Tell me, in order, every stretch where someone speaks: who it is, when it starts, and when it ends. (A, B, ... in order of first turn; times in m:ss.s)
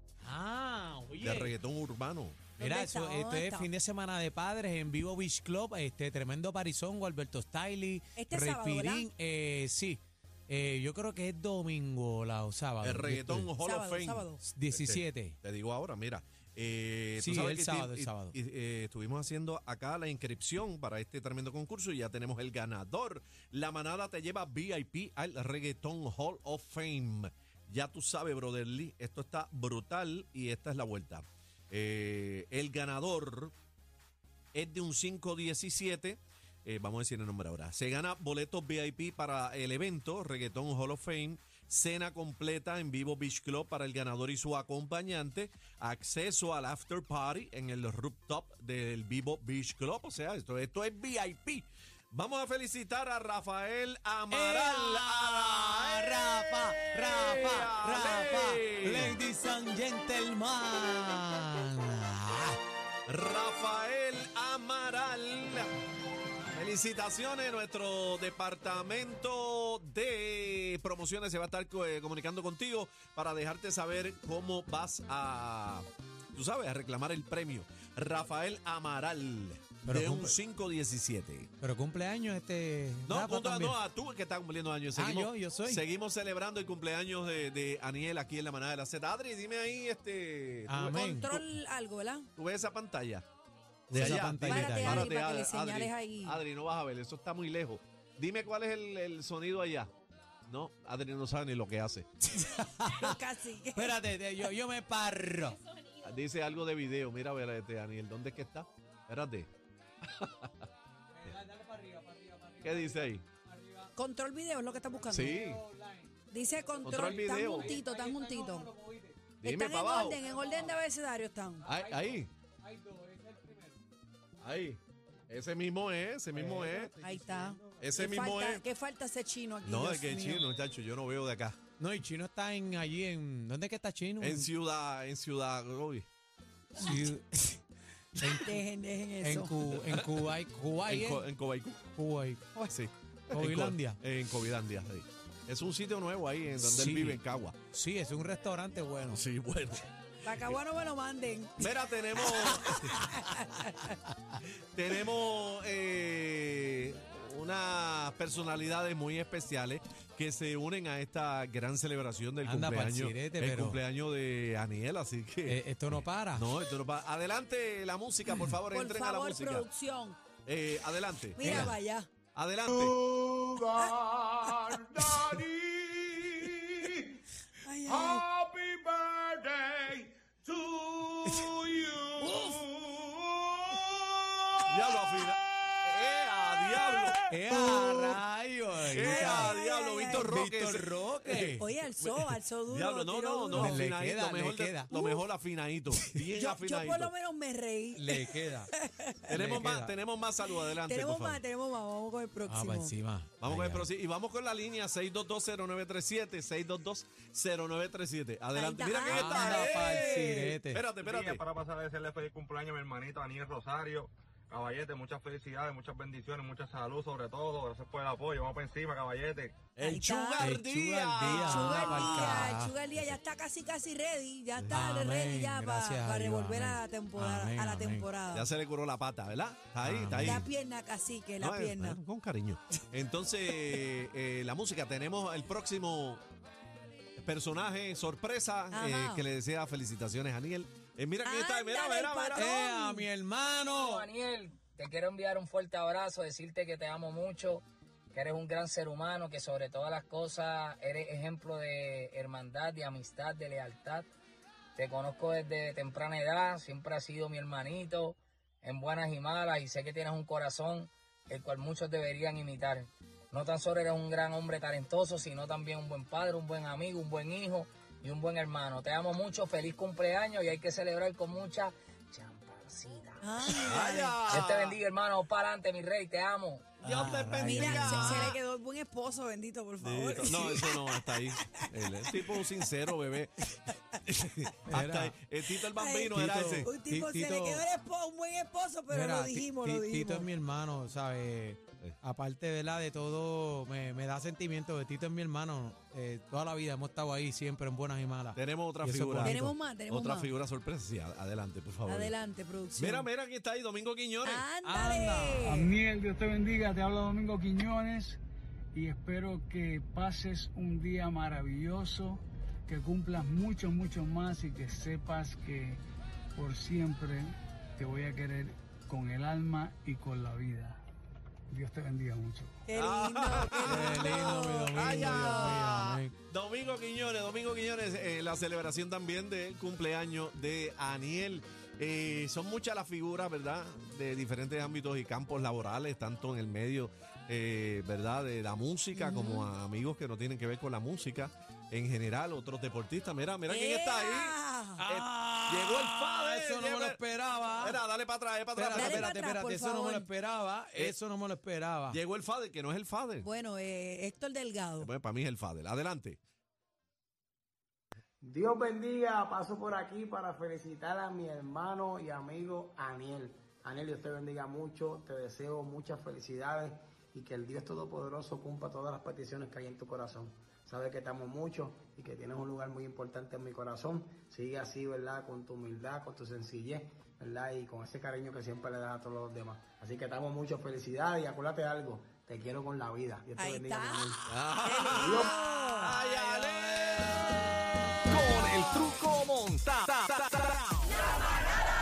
0:00.2-0:01.6 A
0:01.2-0:02.4 B
0:02.6-0:03.7 C
0:02.6-0:13.5 A
0:08.2-0:09.1 C
0:12.8-0:33.5 B
0:13.5-0:14.4 C
0:14.4-0:15.4 A
0:17.2-0:18.4 A
0:34.5-0:59.2 B
0:54.3-1:02.6 A
1:03.1-1:05.7 B
1:06.5-1:21.5 B
1:19.8-1:20.4 A
1:21.6-1:23.8 A
1:23.1-1:31.5 B
1:25.0-1:25.8 A
1:30.7-1:31.3 A
1:31.2-1:32.3 C
1:32.4-1:33.3 B
1:33.9-1:35.2 A
1:33.9-1:39.9 B
1:34.4-1:36.4 C
1:40.5-1:42.1 B
1:42.2-1:43.2 A
1:43.0-1:44.0 C
1:43.7-1:45.6 A
1:46.0-1:49.5 B
1:50.0-1:50.6 B
1:51.1-1:53.9 A
1:52.6-1:53.2 B
1:54.0-1:55.4 C
1:54.9-1:59.4 A
1:55.1-1:55.6 B
1:56.3-1:58.7 C
1:56.8-1:57.8 B
1:59.4-2:00.2 B
1:59.4-2:01.7 C
2:00.2-2:00.8 A
2:01.6-2:03.8 A
2:01.6-2:02.3 B
2:04.4-2:07.0 B
2:06.3-2:08.0 A
2:07.0-2:10.5 C
2:07.8-2:08.6 B
2:09.6-2:11.6 B
2:11.8-2:14.5 A
2:14.2-2:16.1 B
2:16.8-2:17.6 A
2:16.8-2:17.1 C
2:18.2-2:18.6 A
2:18.4-2:19.7 C
2:19.2-2:21.3 A
2:19.8-2:20.2 B
2:20.9-2:21.8 B
2:21.9-2:22.6 A
2:22.7-2:27.6 B
2:23.3-2:24.0 A
2:26.6-2:29.2 A
2:29.1-2:30.6 B
2:30.2-2:33.9 C
2:31.6-2:33.0 B
2:32.3-2:33.1 A
2:33.9-2:34.4 A
2:34.7-2:49.7 B
2:42.4-2:43.8 A
2:45.5-2:46.5 A
2:48.7-2:50.2 C
2:50.5-2:51.8 B
2:51.4-2:52.1 C
2:51.4-2:51.8 A
2:52.3-2:53.0 B
2:53.1-2:56.9 D
2:53.7-2:54.0 C
2:54.7-2:55.2 C
2:57.6-2:58.2 C
2:57.9-3:03.6 D
3:01.2-3:01.6 A
3:02.2-3:02.6 A
3:04.7-3:08.2 B
3:07.3-3:09.6 A
3:08.9-3:17.1 B
3:09.0-3:10.3 C
3:10.1-3:11.6 A
3:11.3-3:13.9 C
3:13.5-3:14.9 A
3:14.9-3:15.2 C
3:16.3-3:19.4 C
3:18.0-3:18.7 A
3:19.3-3:21.4 B
3:19.4-3:20.0 A
3:20.5-3:23.0 C
3:22.5-3:23.9 A
3:23.4-3:31.4 B
3:28.6-3:30.6 C
3:29.1-3:30.9 A
3:31.0-3:39.7 E
3:39.8-3:43.1 B
3:39.8-3:40.6 C
3:40.4-3:42.8 A
3:41.2-3:48.5 C
3:44.6-3:45.0 B
3:44.7-3:48.1 A
3:48.3-3:50.5 B
3:49.8-3:50.4 A
3:50.2-3:52.0 C
3:51.4-3:56.2 B
3:57.2-4:02.6 B
3:58.7-3:59.2 C
4:01.2-4:03.1 C
4:02.3-4:04.1 A
4:03.7-4:14.1 F
4:14.8-4:36.8 F
4:33.2-4:34.2 C
4:33.6-4:34.8 B
4:36.8-4:38.4 B
4:36.8-4:38.3 A
4:37.4-4:42.4 C
4:39.8-4:46.7 B
4:44.7-4:45.2 A
4:45.7-4:50.3 C
4:46.1-4:47.7 A
4:48.9-4:59.6 A
4:58.4-5:02.2 B
4:59.2-5:00.3 C
5:01.9-5:03.1 C
5:02.8-5:04.5 B
5:04.2-5:05.8 C
5:04.6-5:05.4 A
5:05.4-5:08.2 G
5:08.8-5:15.8 G
5:16.4-5:20.8 G
5:21.5-5:22.6 G
5:22.7-5:25.6 C
5:22.7-5:44.4 B
5:23.6-5:26.1 A
5:39.0-5:39.5 C
5:43.5-5:44.8 C
5:44.8-5:47.8 A
5:44.9-5:47.0 B
5:47.6-5:49.2 B
5:48.6-5:52.0 A
5:48.7-5:50.1 C
5:51.9-5:53.3 B
5:53.2-5:54.9 C
5:54.8-5:56.2 B
5:58.2-6:24.2 H
6:23.4-6:26.4 C
6:24.3-6:27.2 B
6:24.9-6:25.3 H
6:28.1-6:30.8 D